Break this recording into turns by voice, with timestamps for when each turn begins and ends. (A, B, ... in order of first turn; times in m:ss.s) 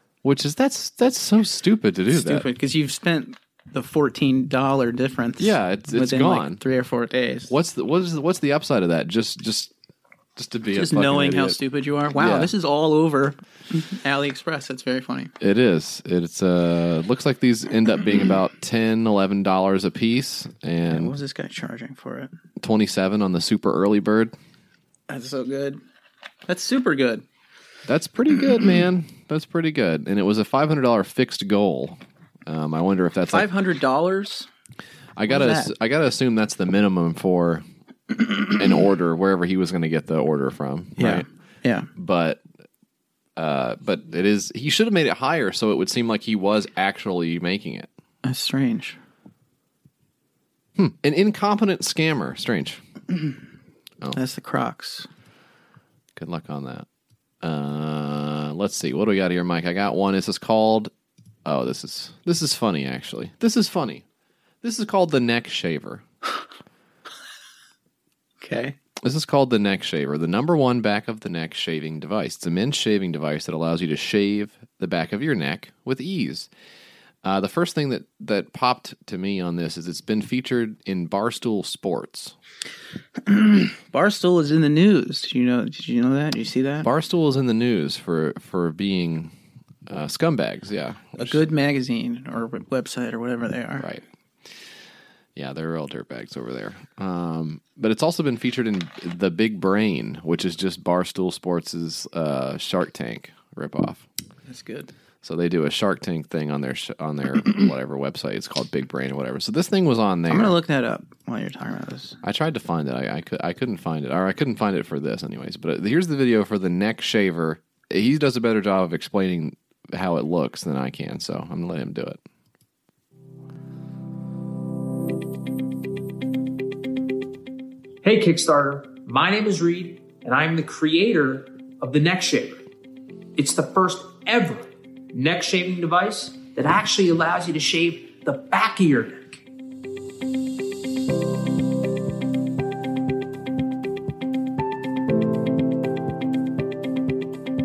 0:00.2-0:02.5 A
0:02.1-0:07.5 B
0:05.4-0:06.6 A
0:07.5-0:09.7 A
0:10.4-0:11.6 A
0:10.7-0:15.3 B
0:12.2-0:12.5 A
0:15.4-0:21.1 A
0:20.9-0:22.3 B
0:22.6-0:24.4 A
0:25.1-0:25.8 B
0:26.5-0:27.2 B
0:27.9-0:33.5 A
0:33.3-0:34.5 B
0:35.2-0:37.6 A
0:35.3-0:35.7 B
0:38.5-0:41.3 A
0:41.0-0:41.9 B
0:42.0-0:42.4 A
0:43.4-0:47.9 A
0:48.2-0:49.0 B
0:50.8-0:52.8 A
0:54.1-0:55.1 B
0:56.2-0:56.9 A
0:57.4-1:00.9 A
1:01.4-1:04.0 A
1:04.6-1:06.0 A
1:08.4-1:08.8 B
1:09.0-1:16.5 A
1:17.2-1:22.4 A
1:23.3-1:26.9 B
1:26.8-1:29.3 A
1:29.9-1:31.4 A
1:31.2-1:33.9 B
1:35.4-1:44.1 A
1:44.5-1:44.9 B
1:45.2-1:50.6 A
1:50.3-1:52.2 B
1:52.2-2:02.2 A
2:08.0-2:12.6 C
2:13.4-2:19.4 C